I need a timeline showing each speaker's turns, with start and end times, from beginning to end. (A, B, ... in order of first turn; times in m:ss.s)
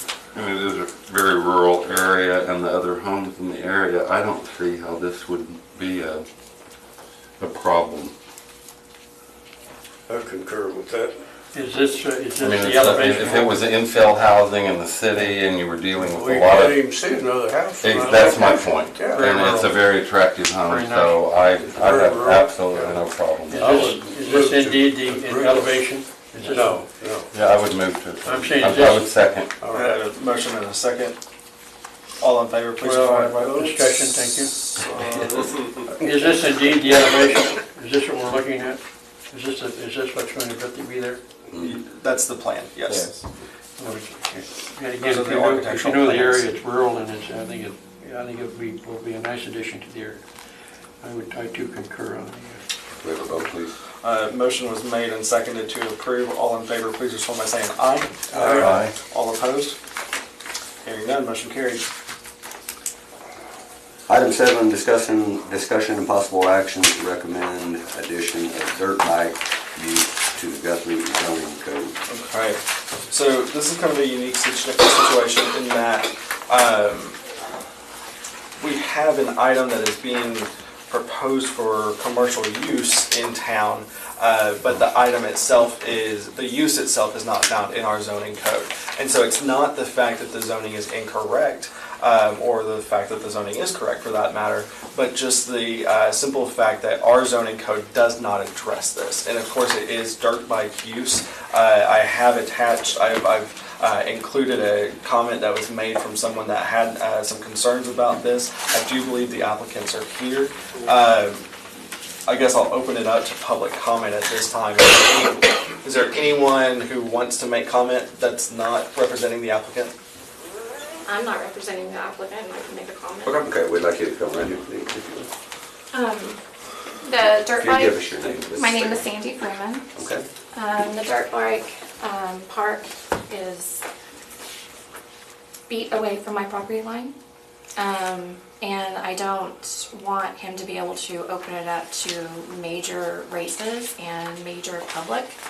0:00.3-0:06.2 A
0:07.4-0:08.1 A
0:10.1-0:11.2 B
0:11.5-0:13.6 C
0:12.4-0:16.8 A
0:16.0-0:19.5 B
0:17.8-0:23.9 A
0:19.1-0:19.8 C
0:20.6-0:21.3 C
0:21.6-0:23.0 B
0:23.5-0:26.8 C
0:23.5-0:27.3 B
0:27.3-0:29.5 A
0:28.2-0:29.1 C
0:29.6-0:30.0 B
0:29.7-0:31.2 D
0:32.2-0:33.4 D
0:32.8-0:35.2 C
0:33.4-0:33.8 B
0:34.4-0:35.6 D
0:35.8-0:41.2 C
0:41.6-0:43.2 D
0:43.8-0:50.2 C
0:45.0-0:46.4 D
0:51.0-0:52.6 C
0:53.0-0:53.8 E
0:54.0-0:59.8 D
0:58.3-0:58.8 B
0:58.6-0:58.9 A
1:00.8-1:01.8 D
1:04.1-1:12.0 E
1:12.1-1:17.2 D
1:18.6-1:51.5 D
1:52.2-1:59.9 D
2:01.0-2:03.3 F
2:03.2-2:05.3 E
2:05.9-2:06.4 F
2:07.0-2:09.8 F
2:07.5-2:09.1 E
2:09.9-2:10.2 E
2:10.5-2:13.8 F
2:15.7-2:17.1 F
2:17.8-2:25.4 F